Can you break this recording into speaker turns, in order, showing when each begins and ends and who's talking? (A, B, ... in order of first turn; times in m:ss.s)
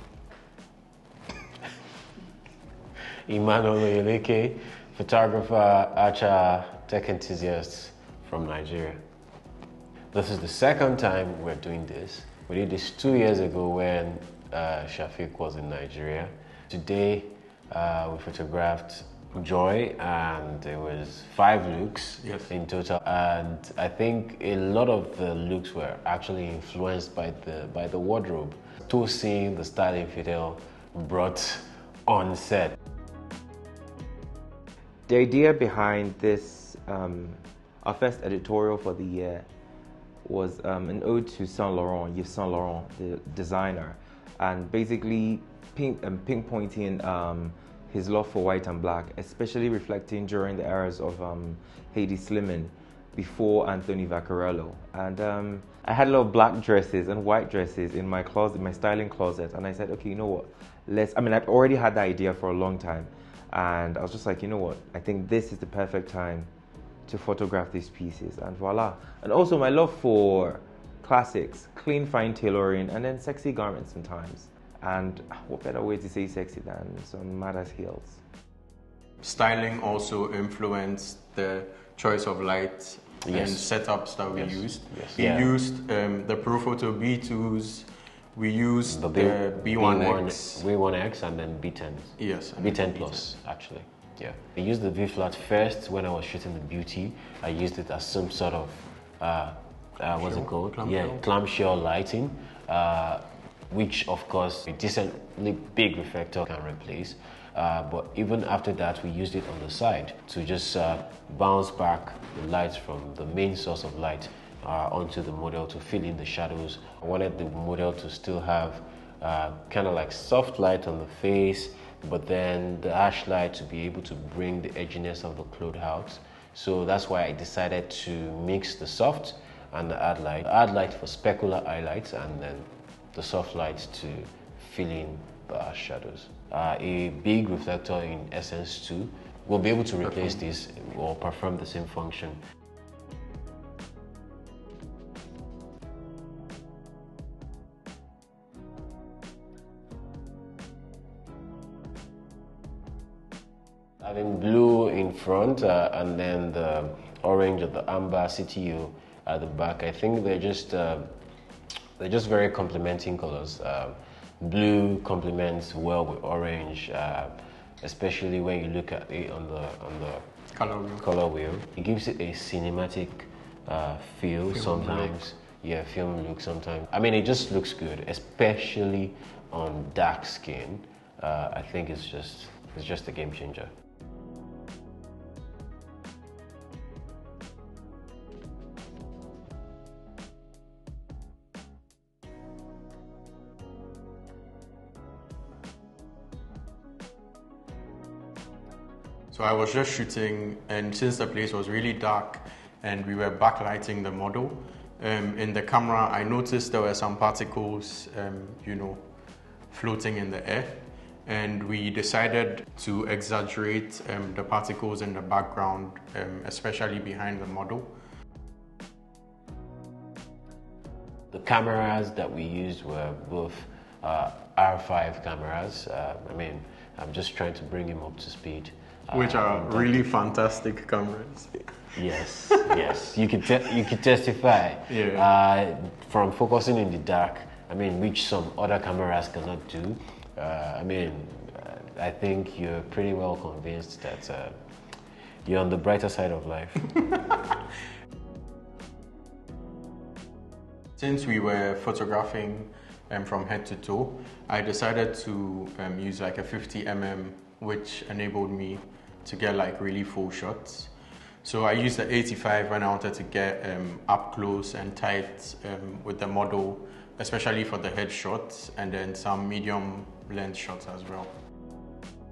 0:03.2-0:09.0 A
0:10.1-0:32.8 A
0:22.2-0:22.5 B
0:35.1-0:39.5 C
0:40.2-1:06.5 C
1:07.1-1:18.2 C
1:19.2-1:30.6 B
1:23.2-1:23.7 A
1:24.3-1:25.5 A
1:28.8-2:22.4 A
1:32.2-1:33.3 B
1:40.2-1:41.2 B
2:20.1-2:20.4 B
2:34.0-2:41.1 A
2:42.0-2:50.2 A
2:50.5-2:51.0 B
2:51.0-3:03.7 A
2:54.4-2:55.2 B
3:19.3-3:29.0 B
3:29.7-3:37.9 B
3:41.3-3:50.2 A
3:49.1-3:52.9 B
3:51.9-4:04.6 A
3:53.6-3:53.9 B
3:54.9-3:55.3 B
4:05.4-4:07.0 A
4:11.0-4:20.9 B
4:21.4-4:31.3 B